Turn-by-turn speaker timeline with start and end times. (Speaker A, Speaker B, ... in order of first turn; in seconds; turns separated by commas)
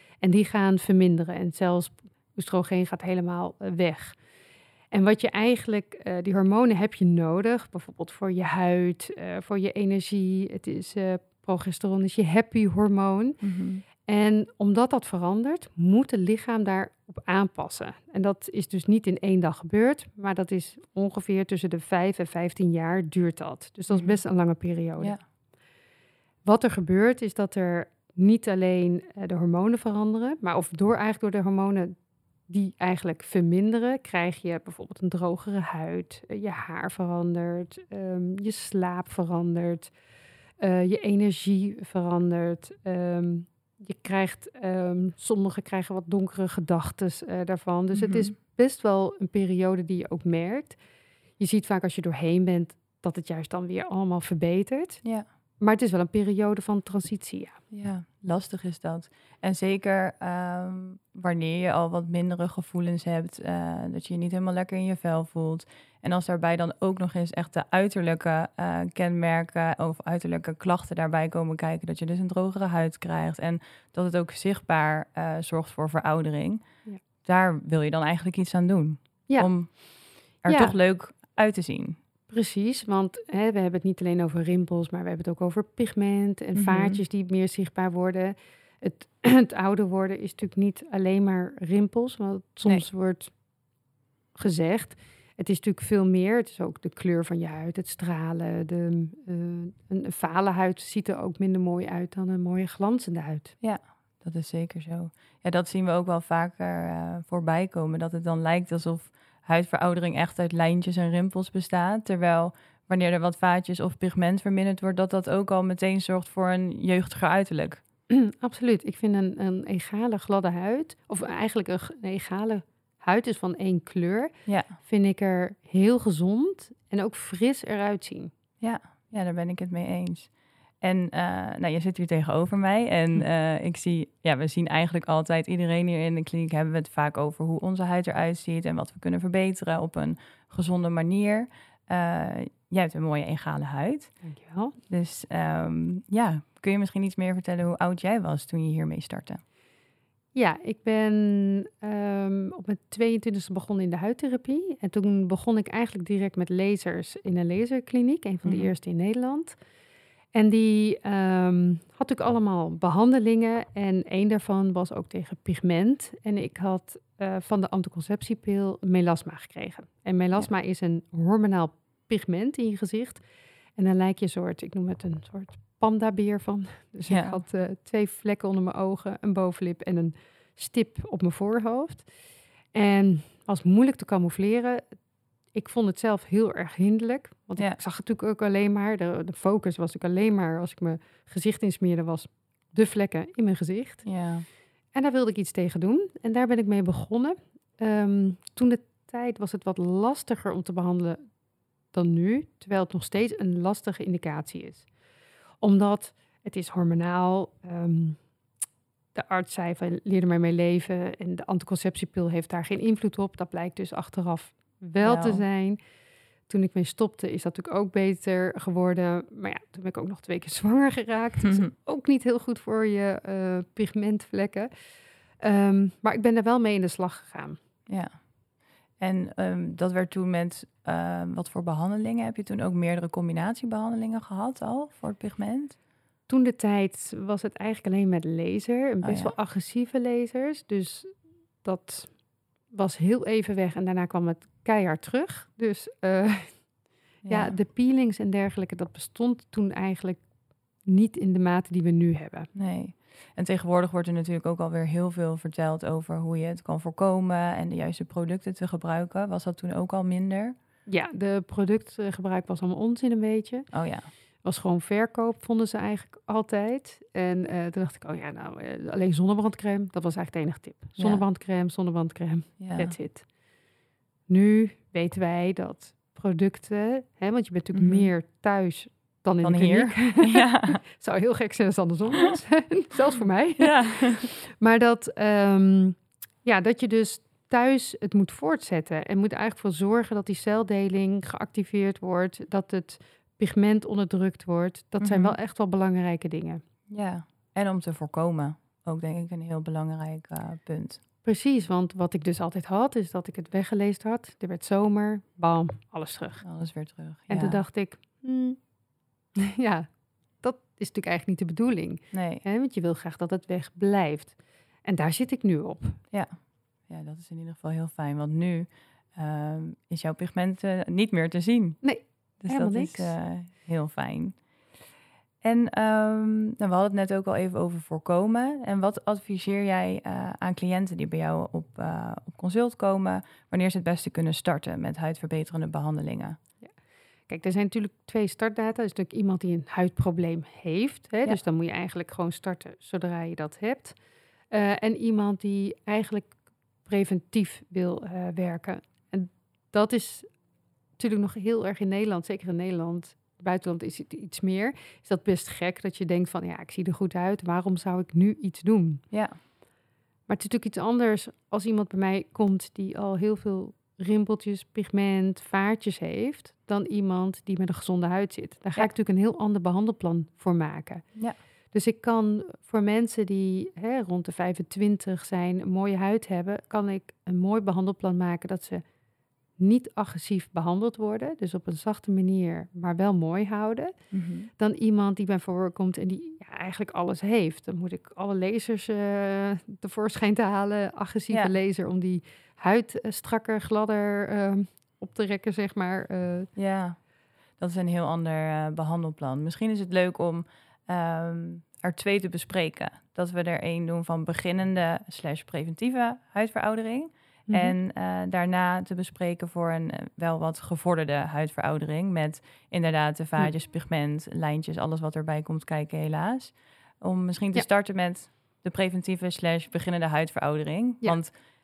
Speaker A: 0.2-4.2, Speaker A: 4.9-13.4, Speaker B: 13.4-13.8, Speaker A: 14.1-25.2, Speaker B: 23.9-24.2, Speaker A: 26.4-31.9, Speaker A: 32.5-39.9, Speaker A: 40.6-50.8, Speaker B: 47.9-48.3, Speaker A: 51.4-55.0, Speaker A: 55.6-57.6, Speaker B: 57.7-76.6, Speaker B: 77.2-79.9, Speaker A: 79.3-79.8, Speaker B: 80.4-82.0, Speaker A: 80.4-80.7, Speaker A: 82.3-93.3, Speaker B: 86.5-87.0, Speaker A: 94.3-103.5, Speaker B: 103.6-117.8, Speaker A: 118.1-128.3, Speaker B: 124.5-124.7, Speaker B: 128.6-144.1, Speaker A: 144.2-144.8, Speaker B: 144.9-149.4, Speaker A: 150.3-159.5, Speaker B: 158.4-158.7, Speaker A: 160.3-173.2, Speaker A: 173.8-182.1, Speaker B: 177.1-177.4, Speaker A: 182.7-184.8, Speaker A: 185.5-194.0, Speaker B: 194.0-194.4, Speaker A: 194.9-201.3, Speaker A: 201.9-204.8, Speaker A: 205.6-208.2, Speaker A: 209.1-215.8, Speaker B: 215.0-215.4, Speaker A: 216.5-224.7, Speaker A: 225.4-227.6, Speaker B: 227.9-228.2, Speaker B: 229.0-235.8, Speaker A: 236.3-241.1, Speaker B: 239.0-239.3, Speaker A: 241.6-242.1, Speaker A: 242.7-246.7, Speaker B: 247.2-247.5, Speaker A: 247.3-250.2, Speaker A: 250.8-252.5, Speaker B: 252.5-260.5, Speaker A: 260.9-263.7, Speaker B: 263.7-264.1, Speaker A: 264.4-273.3, Speaker B: 271.0-271.2, Speaker B: 272.6-272.9, Speaker A: 274.3-296.6, Speaker B: 277.7-278.1, Speaker B: 279.4-280.8, Speaker B: 283.6-284.2, Speaker B: 295.0-295.3, Speaker B: 296.9-301.0, Speaker A: 301.2-306.4, Speaker B: 306.4-307.6, Speaker A: 307.3-308.6, Speaker A: 309.4-309.9, Speaker A: 310.4-316.0, Speaker B: 312.1-312.4, Speaker B: 316.9-321.8, Speaker A: 321.8-323.1, Speaker B: 322.4-324.4, Speaker B: 325.4-336.4, Speaker A: 337.3-343.9, Speaker A: 344.5-350.3, Speaker A: 351.0-359.0, Speaker B: 359.1-359.4, Speaker A: 360.3-371.1, Speaker A: 371.7-378.8, Speaker A: 379.6-383.9, Speaker B: 384.1-384.5, Speaker A: 384.6-396.5, Speaker B: 396.6-397.0, Speaker B: 397.6-421.3, Speaker A: 407.5-407.7